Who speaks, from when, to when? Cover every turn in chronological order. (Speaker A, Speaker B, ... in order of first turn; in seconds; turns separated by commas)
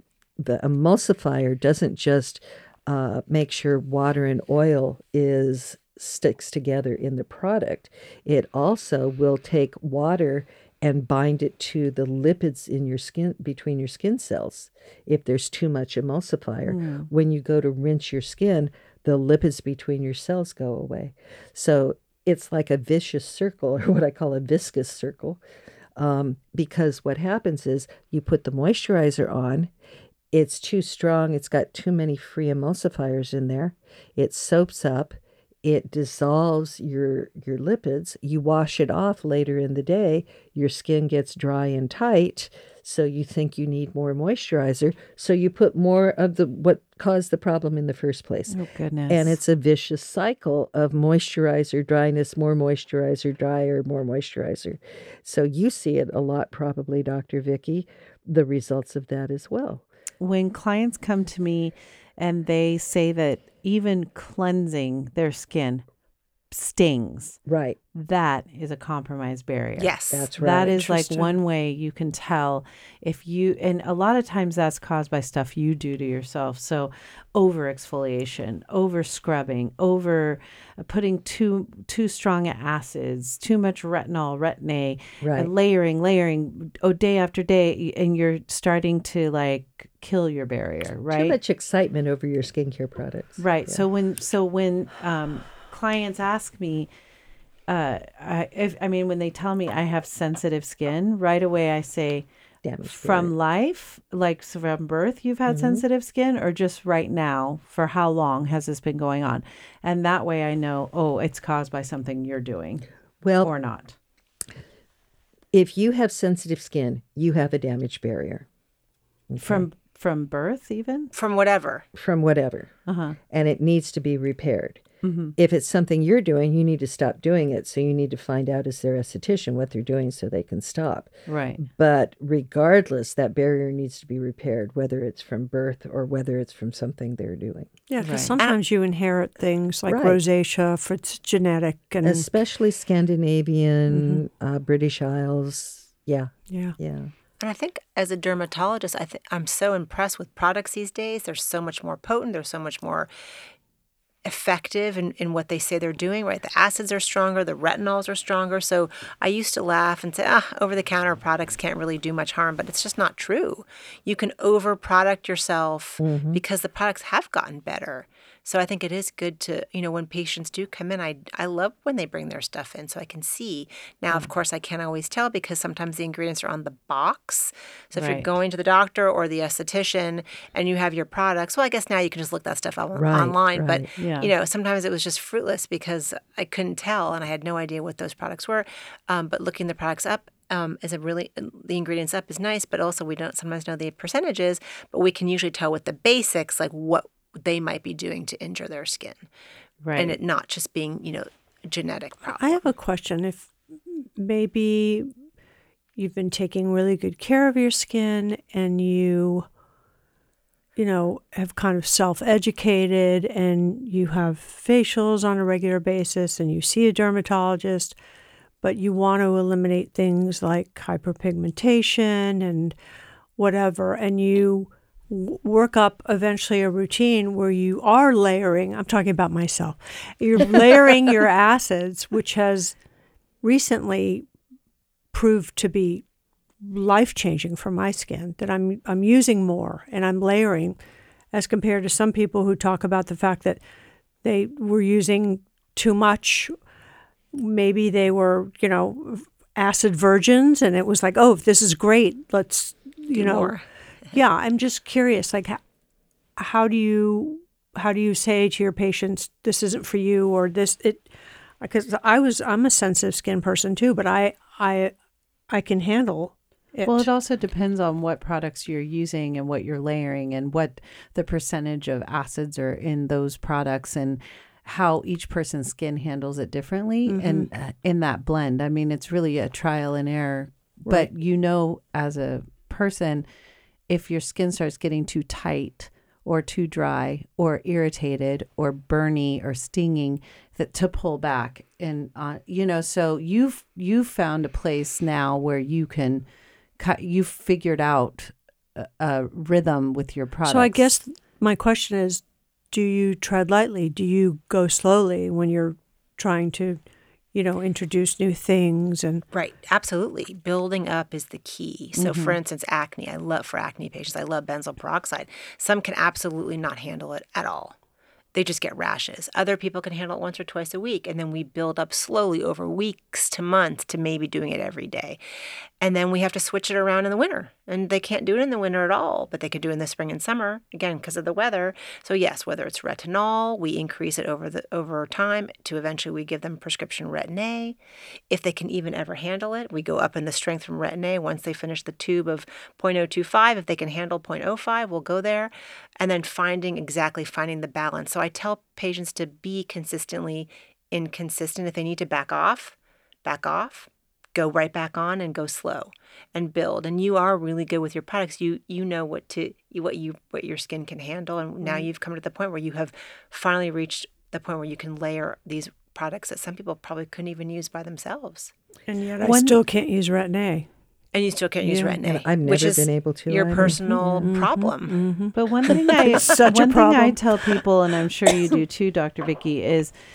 Speaker A: 0.4-25.4, Speaker B: 16.6-17.1, Speaker A: 26.0-29.7, Speaker A: 30.3-48.6, Speaker B: 48.5-49.4, Speaker A: 49.1-59.8, Speaker B: 60.2-65.8, Speaker B: 66.5-67.4, Speaker A: 67.5-67.8, Speaker B: 68.0-91.4, Speaker C: 69.8-70.3, Speaker A: 70.1-71.3, Speaker A: 85.2-85.5, Speaker A: 91.1-93.8, Speaker B: 93.4-96.9, Speaker B: 97.7-102.3, Speaker A: 102.6-103.3, Speaker B: 102.8-112.9, Speaker A: 105.5-105.8, Speaker A: 113.2-113.5, Speaker B: 113.4-114.0, Speaker A: 115.5-118.5, Speaker A: 119.3-119.7, Speaker B: 119.4-121.1, Speaker C: 121.1-121.8, Speaker A: 122.0-122.7, Speaker B: 122.9-123.2, Speaker A: 123.3-124.8, Speaker B: 125.0-125.4, Speaker A: 125.4-137.7, Speaker B: 131.3-131.6, Speaker D: 137.9-142.3, Speaker B: 138.0-138.3, Speaker A: 139.9-140.2, Speaker A: 142.0-147.1, Speaker D: 143.9-144.2, Speaker D: 146.5-146.8, Speaker C: 147.4-153.1, Speaker C: 154.2-199.3, Speaker A: 166.0-166.4, Speaker B: 177.9-178.3, Speaker A: 183.0-183.9, Speaker B: 184.0-184.3, Speaker B: 199.8-200.2, Speaker C: 200.0-202.6, Speaker D: 202.3-205.1, Speaker D: 206.0-209.5, Speaker D: 210.8-218.0, Speaker D: 218.6-222.8, Speaker D: 223.4-232.8, Speaker D: 233.4-234.3, Speaker D: 235.1-236.1, Speaker D: 236.6-240.8, Speaker D: 241.3-243.6, Speaker D: 244.2-246.6, Speaker D: 247.3-255.6, Speaker C: 253.2-254.1, Speaker D: 256.4-264.9, Speaker D: 265.5-267.1, Speaker B: 266.9-283.3, Speaker D: 277.1-277.5, Speaker B: 283.9-296.3, Speaker B: 296.8-300.9, Speaker D: 300.4-309.2, Speaker C: 309.3-317.8, Speaker B: 312.0-312.4, Speaker C: 318.4-325.2, Speaker C: 325.8-337.8, Speaker C: 338.3-368.5, Speaker D: 361.6-361.9, Speaker D: 368.9-370.7, Speaker B: 369.2-369.6, Speaker C: 371.1-375.0, Speaker D: 371.6-372.0, Speaker A: 372.0-373.9, Speaker D: 373.6-377.3, Speaker B: 375.3-379.9